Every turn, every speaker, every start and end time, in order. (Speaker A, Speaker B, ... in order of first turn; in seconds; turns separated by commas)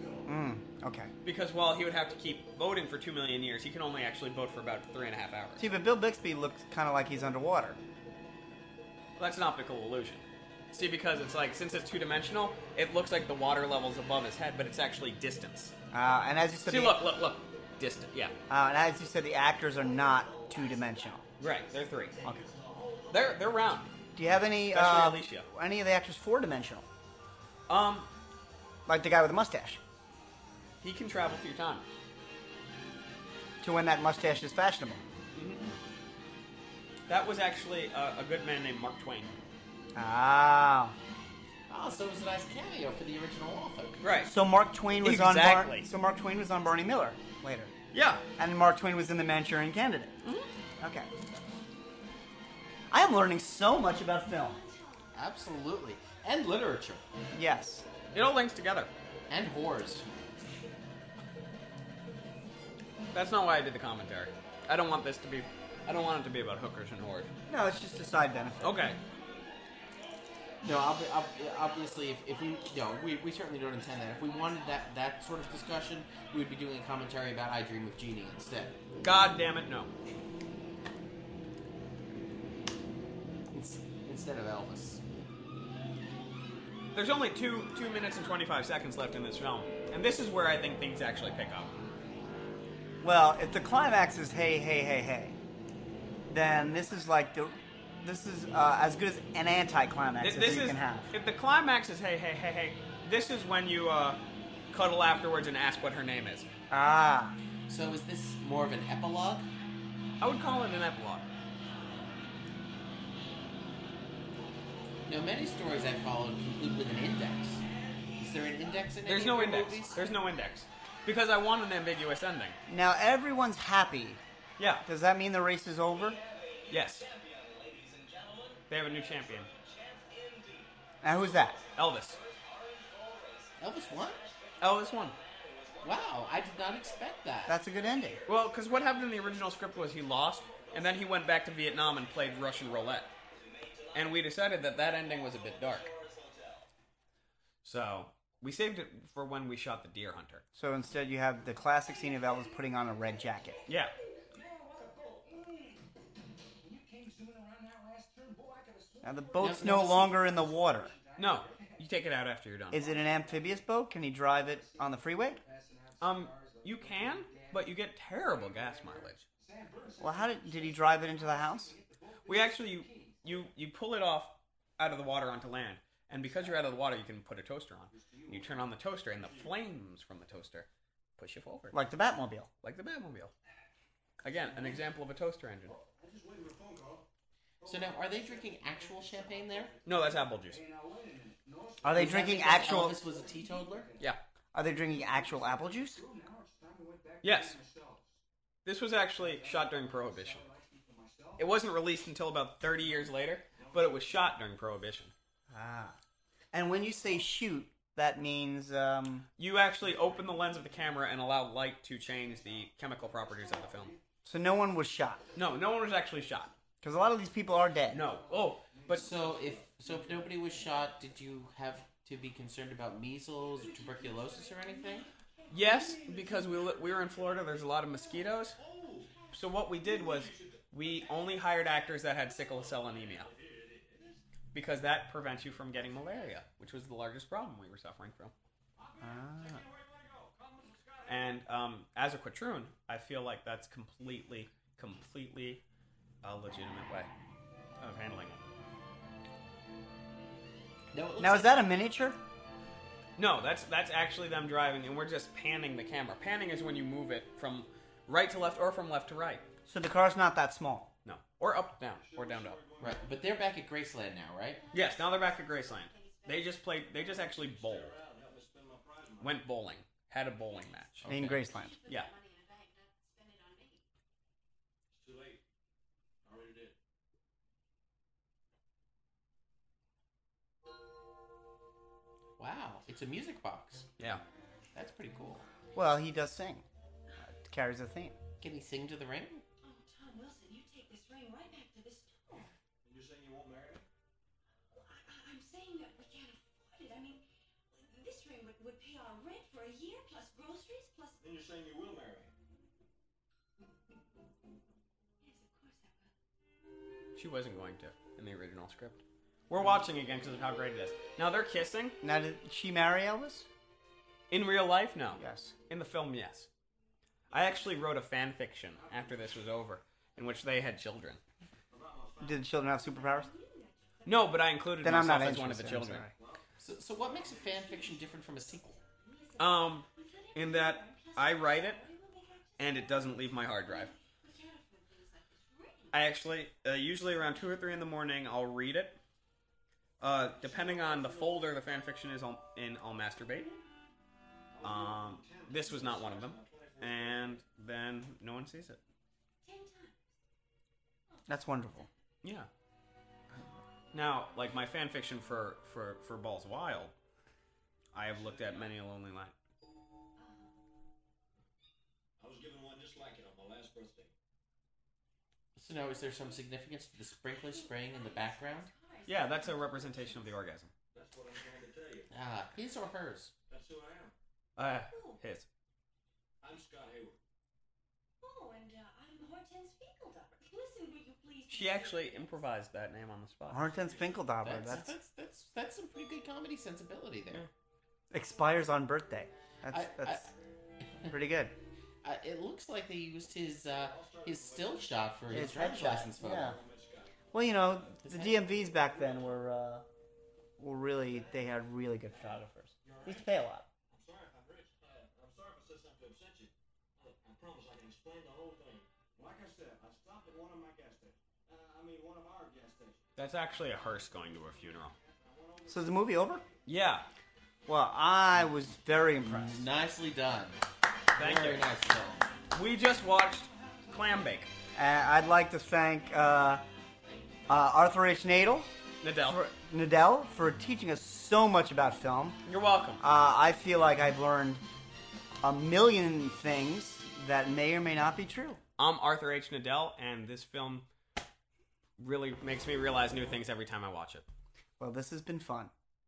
Speaker A: 0.2-1.1, Speaker B: 1.2-5.7, Speaker A: 5.6-7.8, Speaker B: 9.2-15.7, Speaker A: 15.9-17.0, Speaker B: 16.6-18.3, Speaker A: 18.5-21.2, Speaker B: 21.4-22.1, Speaker B: 23.1-23.9, Speaker A: 24.1-26.9, Speaker B: 24.7-25.4, Speaker B: 27.7-28.1, Speaker A: 28.9-29.8, Speaker B: 30.8-31.8, Speaker A: 33.6-35.0, Speaker B: 35.3-35.6, Speaker B: 37.1-39.3, Speaker A: 39.9-41.0, Speaker C: 41.7-44.0, Speaker B: 44.0-44.3, Speaker A: 44.2-47.7, Speaker B: 45.0-45.9, Speaker B: 47.9-48.2, Speaker A: 48.4-50.1, Speaker B: 50.2-50.5, Speaker A: 50.8-51.1, Speaker A: 52.9-54.6, Speaker C: 55.1-57.0, Speaker A: 57.3-57.9, Speaker B: 58.1-58.9, Speaker C: 59.3-60.0, Speaker B: 63.1-67.3, Speaker A: 67.5-68.8, Speaker B: 68.6-69.0, Speaker C: 70.6-78.8, Speaker B: 79.0-79.9, Speaker C: 83.5-85.0, Speaker B: 86.9-91.7, Speaker A: 93.0-95.4, Speaker A: 96.3-101.1, Speaker B: 100.2-104.2, Speaker B: 104.7-106.5, Speaker A: 106.7-107.4, Speaker C: 107.7-109.5, Speaker B: 110.2-111.3, Speaker C: 115.0-117.6, Speaker C: 118.2-120.1, Speaker B: 119.0-122.5, Speaker A: 122.7-124.2, Speaker B: 124.6-124.8, Speaker A: 124.8-126.2, Speaker B: 126.7-127.1, Speaker B: 128.7-129.5, Speaker A: 131.0-131.6, Speaker B: 131.8-132.2, Speaker C: 133.6-134.2, Speaker B: 134.6-135.2, Speaker C: 135.8-137.6, Speaker A: 137.5-138.2, Speaker B: 138.3-143.1, Speaker B: 143.9-145.9, Speaker B: 147.6-150.4, Speaker A: 150.5-153.6, Speaker B: 153.7-153.9, Speaker D: 156.7-159.0, Speaker A: 159.0-160.9, Speaker C: 159.4-160.2, Speaker B: 161.2-162.8, Speaker A: 162.7-165.4, Speaker D: 165.6-165.9, Speaker B: 166.0-169.2, Speaker D: 169.5-170.0, Speaker A: 170.0-171.8, Speaker B: 172.2-181.7, Speaker D: 177.9-178.6, Speaker A: 181.7-182.5, Speaker B: 182.6-183.3, Speaker B: 184.2-185.8, Speaker D: 185.8-187.1, Speaker C: 187.6-189.8, Speaker B: 189.8-190.6, Speaker D: 190.9-191.7, Speaker A: 191.8-193.0, Speaker C: 191.9-193.9, Speaker B: 192.6-193.0, Speaker A: 194.5-196.1, Speaker D: 196.2-198.1, Speaker B: 197.2-197.6, Speaker B: 198.6-200.5, Speaker D: 200.4-201.3, Speaker B: 201.4-205.1, Speaker A: 205.5-206.0, Speaker A: 206.5-209.3, Speaker B: 209.4-214.0, Speaker A: 214.2-215.2, Speaker B: 215.3-216.5, Speaker A: 216.8-218.0, Speaker B: 217.9-219.1, Speaker D: 218.7-220.3, Speaker C: 218.9-225.1, Speaker B: 225.5-228.6, Speaker D: 228.6-229.1, Speaker B: 229.3-233.3, Speaker D: 230.1-230.8, Speaker D: 232.8-234.2, Speaker B: 234.5-238.3, Speaker D: 238.8-241.4, Speaker A: 239.0-239.6, Speaker B: 241.1-245.6, Speaker B: 246.2-247.1, Speaker B: 247.8-248.4, Speaker C: 250.9-251.5, Speaker A: 251.2-252.2, Speaker B: 253.2-259.4, Speaker A: 259.7-260.9, Speaker B: 261.0-262.6, Speaker D: 262.0-263.2, Speaker C: 262.8-264.6, Speaker E: 264.6-267.2, Speaker B: 264.7-267.9, Speaker D: 267.3-269.4, Speaker B: 269.2-272.1, Speaker A: 271.1-271.8, Speaker E: 271.3-273.8, Speaker D: 274.9-275.4, Speaker D: 276.2-276.8, Speaker C: 282.4-283.9, Speaker C: 284.7-285.4, Speaker A: 285.7-286.6, Speaker A: 287.3-288.1, Speaker C: 288.4-289.4, Speaker E: 289.6-292.5, Speaker D: 292.8-293.9, Speaker E: 294.7-301.2, Speaker D: 301.2-302.3, Speaker E: 305.2-306.1, Speaker B: 307.1-311.9, Speaker A: 312.0-313.5, Speaker B: 314.3-316.5, Speaker A: 315.1-315.5, Speaker B: 317.3-321.2, Speaker D: 318.7-319.4, Speaker D: 321.7-322.5, Speaker A: 322.2-323.3, Speaker E: 322.6-324.3, Speaker B: 324.0-326.1, Speaker A: 324.8-326.1, Speaker D: 326.1-326.4, Speaker C: 326.6-328.8, Speaker D: 327.1-328.0, Speaker E: 328.9-336.0, Speaker B: 329.4-331.8, Speaker B: 332.6-333.9, Speaker B: 335.9-339.0, Speaker B: 340.0-343.5, Speaker D: 340.3-341.5, Speaker D: 344.5-347.4, Speaker B: 344.6-348.8, Speaker E: 349.4-350.0, Speaker A: 351.3-351.9, Speaker B: 352.2-352.5, Speaker B: 353.9-356.9, Speaker B: 357.9-359.3, Speaker D: 358.0-358.7, Speaker E: 360.2-360.5, Speaker D: 362.2-364.1, Speaker C: 365.6-368.7, Speaker E: 367.3-370.3, Speaker B: 369.1-370.7, Speaker D: 370.9-372.1, Speaker C: 372.1-373.3, Speaker D: 373.5-374.1, Speaker B: 374.6-375.5, Speaker E: 374.9-375.2, Speaker D: 376.4-377.2, Speaker E: 378.2-382.5, Speaker B: 381.5-383.7, Speaker A: 383.5-384.9, Speaker D: 383.6-384.3, Speaker C: 384.4-387.5, Speaker A: 388.1-390.3, Speaker C: 389.7-390.3, Speaker A: 391.1-391.5, Speaker C: 392.0-396.5, Speaker D: 393.7-397.1, Speaker A: 395.3-396.6, Speaker A: 397.3-399.8, Speaker C: 398.0-398.5, Speaker D: 398.7-399.4, Speaker A: 400.6-403.6, Speaker D: 402.1-403.4, Speaker D: 403.9-413.1, Speaker B: 413.1-414.9, Speaker D: 414.8-416.6, Speaker A: 415.7-416.4, Speaker B: 416.6-417.1, Speaker A: 417.7-419.6, Speaker B: 419.3-419.6, Speaker C: 419.3-420.6, Speaker C: 421.1-422.3, Speaker B: 421.1-421.7, Speaker B: 422.5-424.5, Speaker A: 424.8-426.6, Speaker A: 427.5-428.7, Speaker B: 429.0-429.4, Speaker A: 429.2-432.4, Speaker B: 432.4-433.0, Speaker A: 433.0-434.6, Speaker A: 435.4-438.6, Speaker B: 438.8-440.9, Speaker B: 442.0-444.2, Speaker A: 444.8-445.7